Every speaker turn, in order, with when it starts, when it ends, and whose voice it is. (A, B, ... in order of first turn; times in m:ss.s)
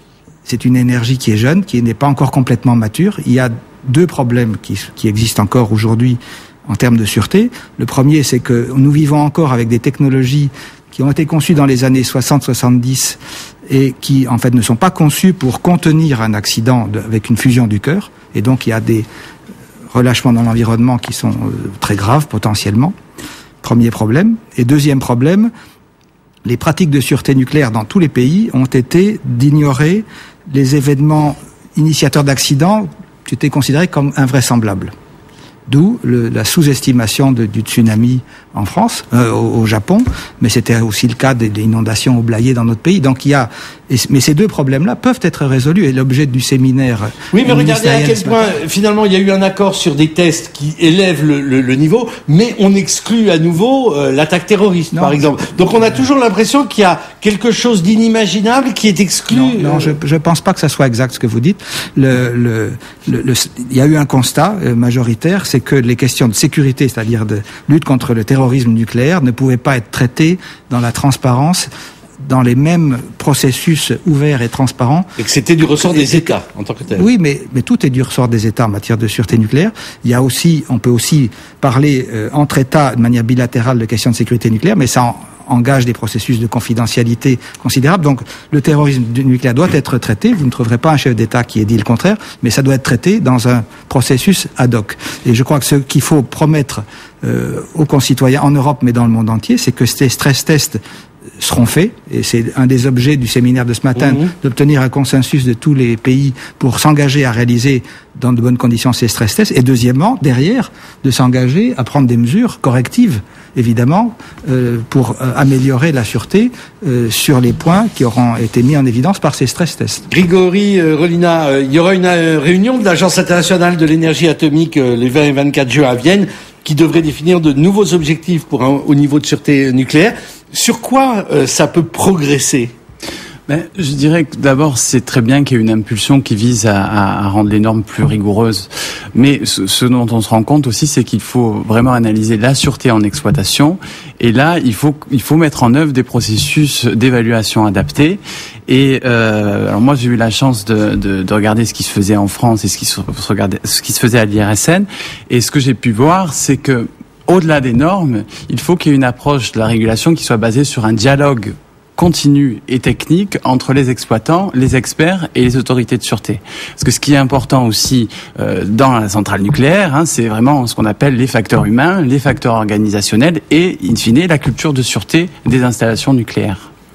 0:00.5-0:19.1 A
0:19.9-0:22.9 A
0:23.6-0:25.5 A
0:26.5-0:34.9 A
0:35.7-0:48.5 A
0:47.3-0:59.9 B
0:54.9-0:55.2 A
0:59.3-1:11.7 A
1:12.2-1:15.1 A
1:15.2-1:17.1 B
1:15.9-1:16.3 A
1:17.0-1:40.8 A
1:41.4-2:00.0 A
2:00.1-2:12.7 B
2:13.5-2:56.7 C